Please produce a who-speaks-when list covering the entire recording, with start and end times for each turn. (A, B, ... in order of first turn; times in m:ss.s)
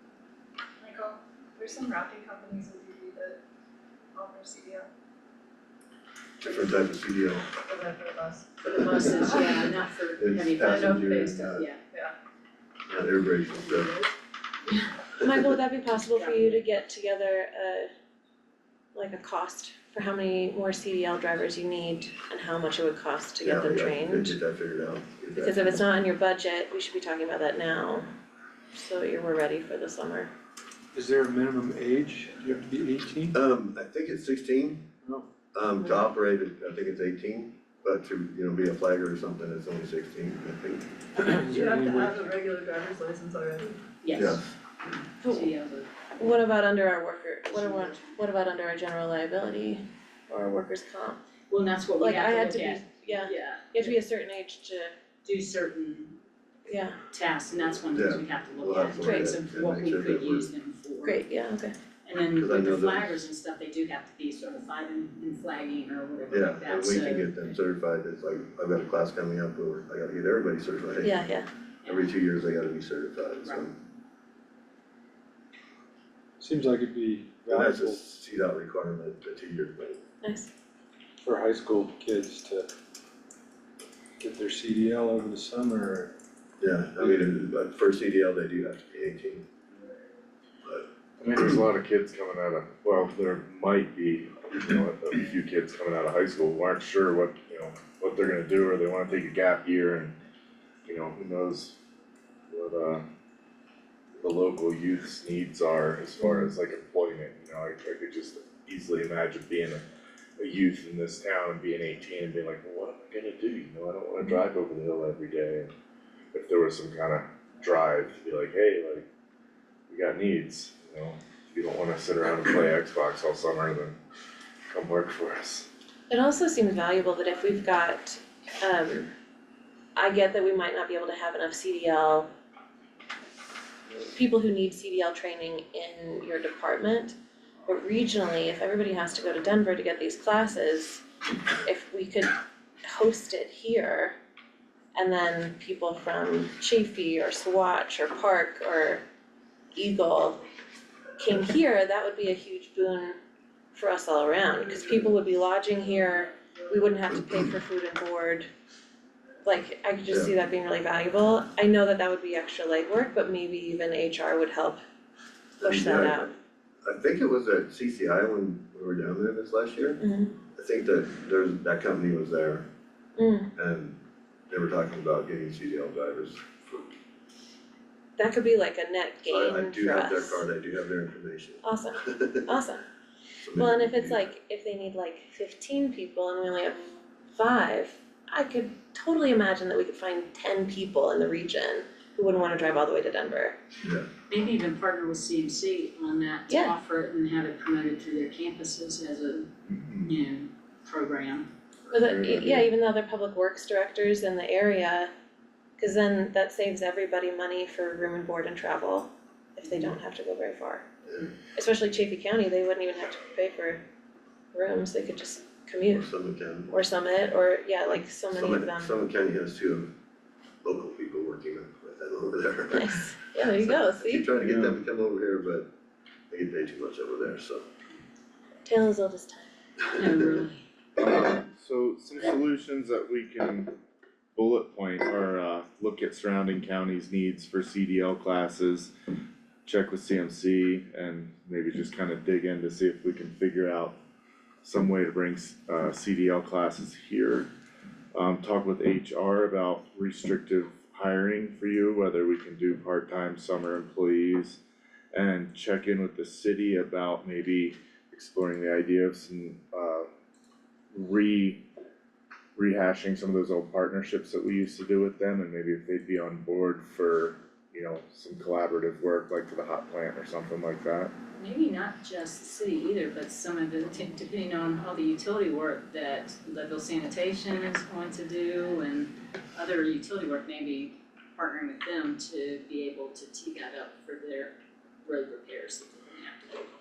0:00.8-0:03.4 A
0:04.2-0:04.9 A
0:06.4-0:07.5 B
0:06.5-0:06.7 A
0:07.5-0:09.6 A
0:08.7-0:11.8 C
0:10.2-0:11.7 B
0:10.6-0:12.1 A
0:12.9-0:13.9 B
0:13.6-0:14.1 A
0:15.2-0:17.9 D
0:15.9-0:16.7 C
0:19.0-0:24.4 D
0:23.4-0:25.8 B
0:25.4-0:28.1 D
0:28.7-0:30.3 D
0:30.9-0:33.4 E
0:33.3-0:34.9 B
0:35.0-0:35.3 E
0:35.5-0:40.9 B
0:41.2-0:42.2 E
0:41.5-0:43.8 A
0:44.0-0:44.4 C
0:44.1-0:44.5 B
0:45.2-0:45.5 D
0:45.2-0:45.9 C
0:46.2-0:51.2 D
0:47.5-0:48.0 C
0:51.5-0:53.9 C
0:52.0-0:54.9 D
0:55.2-0:56.2 C
0:56.7-0:57.0 D
0:57.1-1:01.2 C
0:57.9-1:00.5 B
0:59.0-0:59.3 D
1:01.0-1:01.8 D
1:02.0-1:07.4 C
1:02.4-1:03.2 B
1:06.3-1:11.3 B
1:11.0-1:11.5 D
1:11.8-1:12.1 C
1:11.8-1:13.8 B
1:16.4-1:18.0 E
1:17.5-1:20.0 B
1:20.2-1:20.5 D
1:21.2-1:22.7 E
1:24.2-1:26.2 E
1:26.6-1:29.5 B
1:27.0-1:27.3 E
1:31.2-1:40.2 F
1:40.9-1:41.8 F
1:42.5-1:43.0 F
1:44.2-1:49.8 F
1:46.2-1:46.5 D
1:50.4-1:55.7 F
1:56.3-1:59.1 F
1:59.9-2:04.0 F
2:04.7-2:05.7 F
2:06.1-2:09.1 D
2:10.0-2:12.3 D
2:14.1-2:21.0 D
2:21.6-2:24.2 D
2:25.0-2:29.0 D
2:29.8-2:30.4 D
2:31.2-2:33.2 D
2:33.7-2:38.5 D
2:39.4-2:44.8 D
2:40.1-2:40.3 B
2:45.6-2:46.3 B
2:45.6-2:46.3 D
2:46.8-2:50.0 B
2:50.0-2:50.4 D
2:50.5-2:52.7 B
2:53.2-2:53.5 D
2:53.6-2:56.9 B
2:58.2-3:00.4 D
2:59.3-3:02.4 B
3:01.6-3:02.8 D
3:03.4-3:04.3 B
3:03.6-3:06.8 D
3:07.4-3:13.6 D
3:13.8-3:14.1 B
3:14.3-3:19.5 C
3:19.7-3:20.1 F
3:20.0-3:21.5 C
3:21.9-3:25.1 D
3:21.9-3:22.7 F
3:25.8-3:30.8 D
3:31.5-3:33.8 D
3:34.5-3:36.1 D
3:35.9-3:36.7 B
3:36.7-3:38.9 D
3:38.3-3:39.9 B
3:40.6-3:45.7 B
3:42.7-3:44.3 D
3:44.4-3:44.8 F
3:46.3-3:47.7 B
3:48.7-3:49.5 D
3:49.9-3:50.3 B
3:49.9-3:50.6 C
3:51.0-3:53.8 F
3:54.4-3:58.9 F
3:59.6-4:04.0 F
4:04.6-4:07.5 F
4:08.1-4:14.6 F
4:15.1-4:20.1 F
4:20.9-4:21.7 F
4:22.6-4:31.1 F
4:31.4-4:46.4 C